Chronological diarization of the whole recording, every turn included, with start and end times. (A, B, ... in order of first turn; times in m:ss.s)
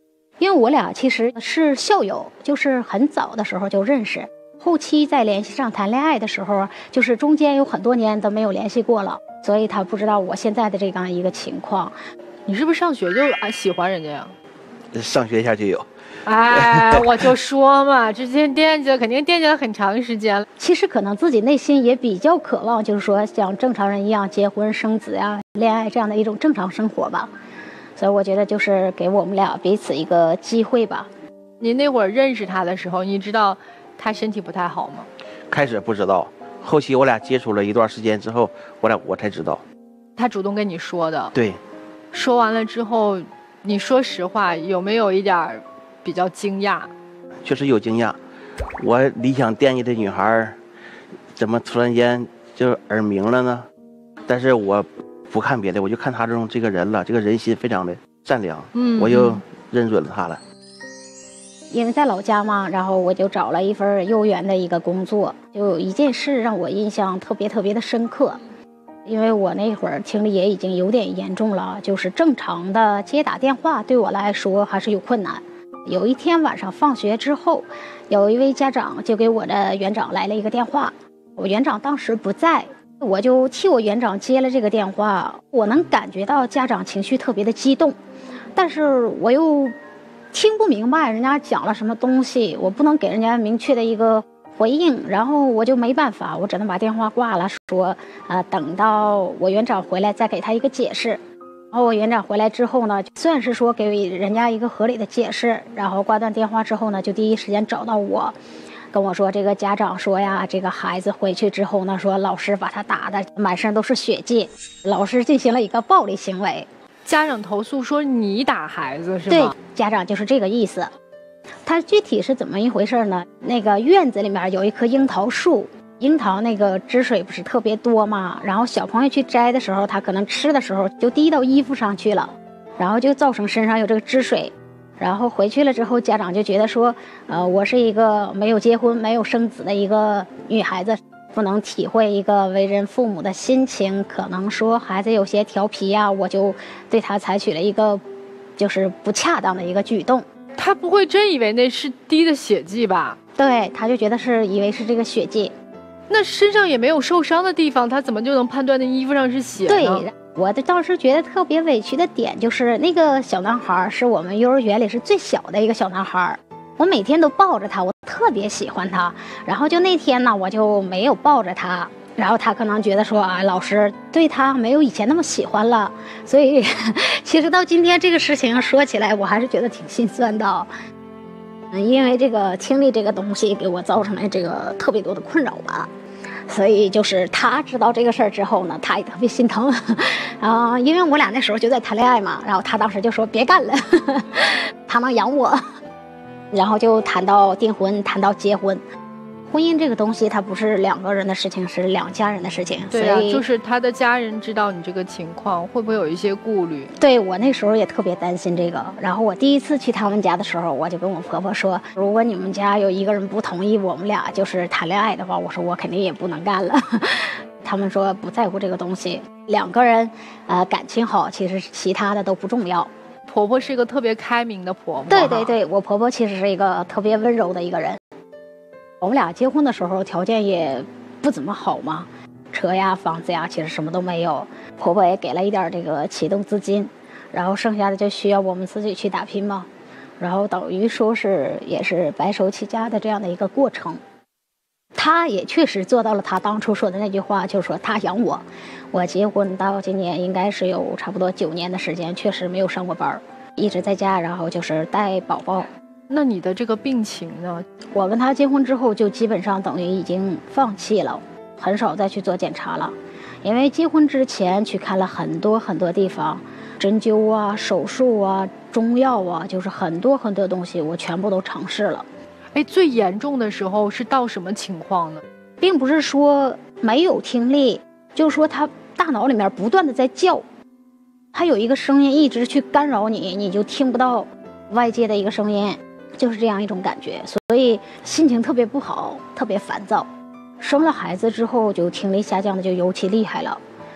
0:00.4-0:11.9 A
0:12.5-0:14.3 B
0:14.9-0:15.9 C
0:16.3-0:20.5 B
0:16.5-0:17.0 C
0:20.6-0:27.3 A
0:28.0-0:31.1 A
0:31.6-0:35.1 B
0:35.5-0:39.6 C
0:40.2-0:41.3 B
0:41.3-0:41.6 C
0:42.1-0:46.9 B
0:47.4-0:48.2 C
0:48.8-0:50.6 C
0:51.4-0:53.7 C
0:54.3-1:00.4 C
0:58.7-0:59.4 B
1:01.7-1:08.4 A
1:09.1-1:28.0 A
1:28.5-1:29.8 A
1:30.3-1:41.2 A
1:41.7-1:48.4 A
1:48.9-1:56.7 A
1:57.1-1:59.5 B
1:59.3-2:00.9 A
2:01.6-2:28.0 A
2:28.6-2:30.3 A
2:30.6-2:33.2 B
2:33.4-2:35.5 A
2:36.1-2:40.1 B
2:39.7-3:00.7 A
3:01.7-3:05.9 A
3:06.5-3:15.6 A
3:16.5-3:18.8 A
3:19.5-3:23.4 A
3:22.9-3:26.9 B
3:27.0-3:42.9 A
3:43.3-3:45.6 B
3:45.1-3:48.0 A
3:49.0-3:59.7 A
4:00.2-4:04.0 A
4:05.0-4:15.7 A
4:16.1-4:17.6 B
4:17.9-4:32.1 A
4:32.6-4:35.2 B
4:35.6-4:40.4 A
4:41.3-4:50.1 A
4:50.6-4:53.6 A